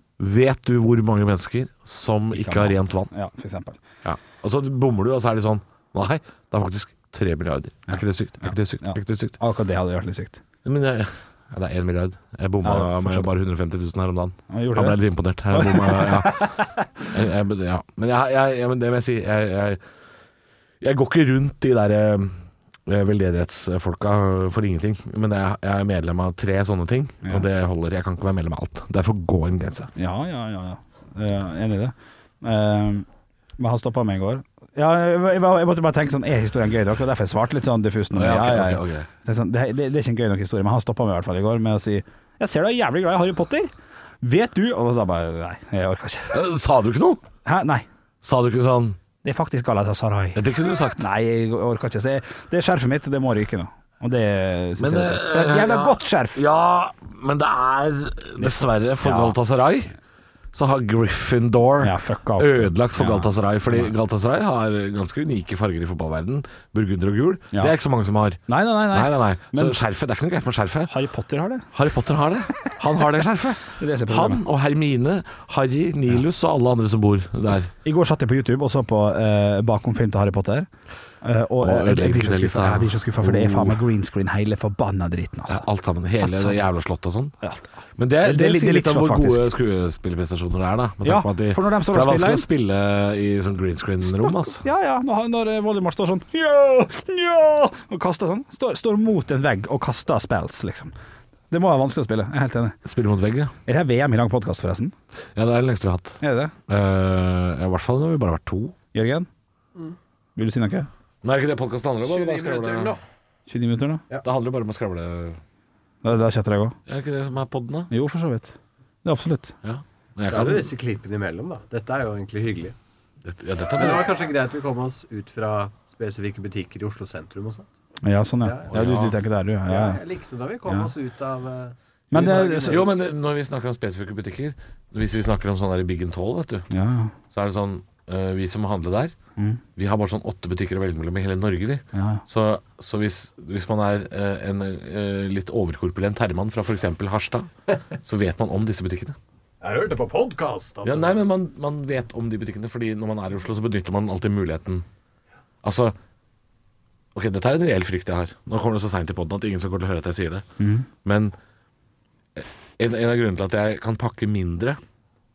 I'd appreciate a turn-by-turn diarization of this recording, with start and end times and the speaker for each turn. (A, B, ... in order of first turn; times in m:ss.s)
0:00.2-0:03.1 A
0:02.3-0:03.8 B
0:04.0-0:09.4 A
0:07.9-0:10.4 B
0:10.6-0:19.8 A
0:12.6-0:13.3 B
0:14.5-0:15.0 B
0:15.5-0:17.1 B
0:20.8-0:29.9 A
0:30.0-0:33.0 B
0:33.6-0:43.7 B
0:38.1-0:39.1 A
0:44.2-0:46.5 B
0:46.3-0:47.2 A
0:47.4-0:47.8 B
0:48.2-0:49.0 A
0:49.2-0:56.4 B
0:50.3-0:51.0 A
0:54.8-0:59.9 A
0:58.4-0:59.4 B
1:00.5-1:10.9 A
1:01.8-1:03.9 B
1:08.5-1:09.8 B
1:10.9-1:11.7 B
1:11.7-1:17.7 A
1:13.7-1:14.4 B
1:17.8-1:20.7 B
1:21.2-1:25.6 B
1:21.6-1:23.8 A
1:25.5-1:27.3 A
1:26.2-1:26.6 B
1:27.4-1:29.5 B
1:28.0-1:34.6 A
1:31.0-1:32.4 B
1:34.0-1:40.9 B
1:41.5-1:42.8 B
1:42.8-1:43.5 A
1:43.7-1:44.9 B
1:45.4-1:48.7 A
1:46.2-1:46.5 B
1:48.9-1:49.3 B
1:50.4-1:50.9 B
1:51.2-1:53.0 A
1:52.0-1:53.0 C
1:53.5-1:54.0 B
1:54.2-1:55.4 A
1:56.0-1:56.8 B
1:56.9-1:57.9 A
1:57.9-1:59.6 B
1:59.6-2:00.7 A
2:00.3-2:02.7 C
2:03.2-2:04.1 A
2:03.8-2:07.6 C
2:08.0-2:10.0 B
2:08.4-2:08.7 C
2:08.7-2:09.2 A
2:09.7-2:13.0 C
2:12.1-2:12.9 B
2:12.1-2:16.7 A
2:16.7-2:17.1 B
2:17.3-2:19.1 A
2:19.8-2:29.2 A
2:21.9-2:22.2 B
2:29.6-2:31.2 C
2:30.8-2:34.8 A
2:35.6-2:35.9 A
2:37.1-2:40.4 A
2:40.6-2:40.9 B
2:41.0-2:41.3 A
2:42.4-2:44.8 A